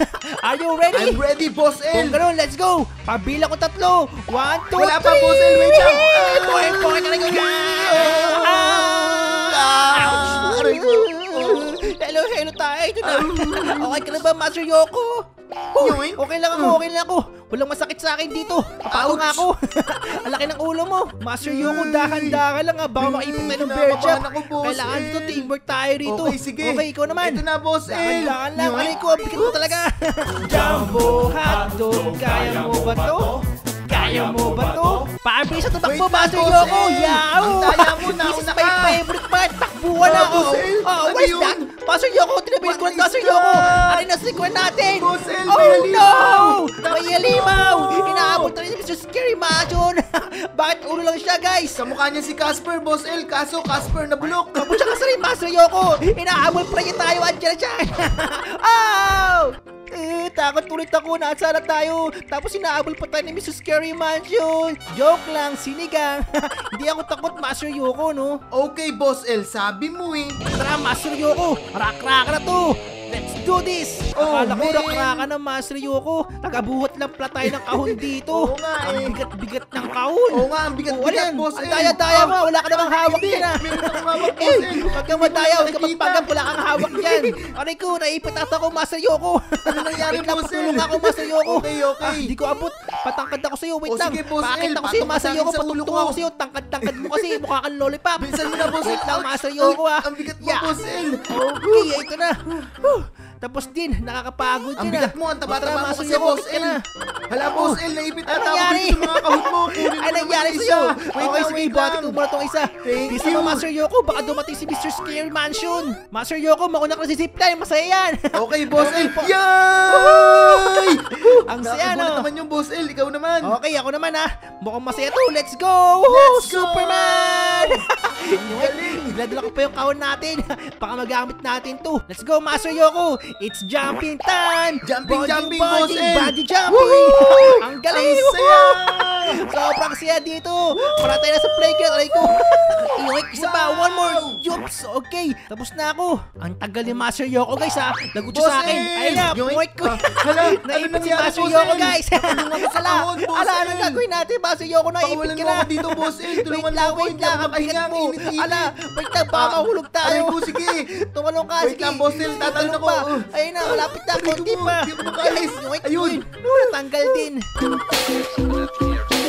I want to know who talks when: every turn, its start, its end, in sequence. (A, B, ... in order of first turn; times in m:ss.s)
0:00.4-0:01.2 A
0:00.9-0:02.2 B
0:01.9-0:15.2 A
0:04.8-0:11.8 B
0:13.0-0:14.0 B
0:15.7-0:51.8 A
0:15.8-0:16.8 B
0:18.9-0:19.5 B
0:21.4-0:22.4 B
0:23.0-0:25.5 B
0:26.0-0:29.8 B
0:35.8-0:39.0 B
0:40.0-0:41.7 B
0:42.6-0:44.1 B
0:44.8-0:48.5 B
0:51.8-0:54.9 B
0:54.6-1:08.4 A
1:08.5-1:10.4 B
1:10.5-1:40.7 A
1:14.2-1:15.3 B
1:17.4-1:19.2 B
1:20.3-1:27.4 B
1:29.7-1:32.3 B
1:33.8-1:36.2 B
1:36.8-1:37.4 B
1:38.2-1:42.0 B
1:41.3-1:46.8 A
1:44.8-1:46.8 B
1:47.3-1:52.2 B
1:47.5-1:59.3 A
1:52.8-1:53.6 B
1:58.3-2:03.6 B
1:59.9-2:02.2 A
2:03.4-2:47.4 A
2:06.1-2:07.8 B
2:08.3-2:09.5 B
2:14.8-2:19.4 B
2:23.3-2:24.4 B
2:28.3-2:34.0 B
2:35.0-2:38.7 B
2:39.3-2:40.9 B
2:41.6-2:47.3 B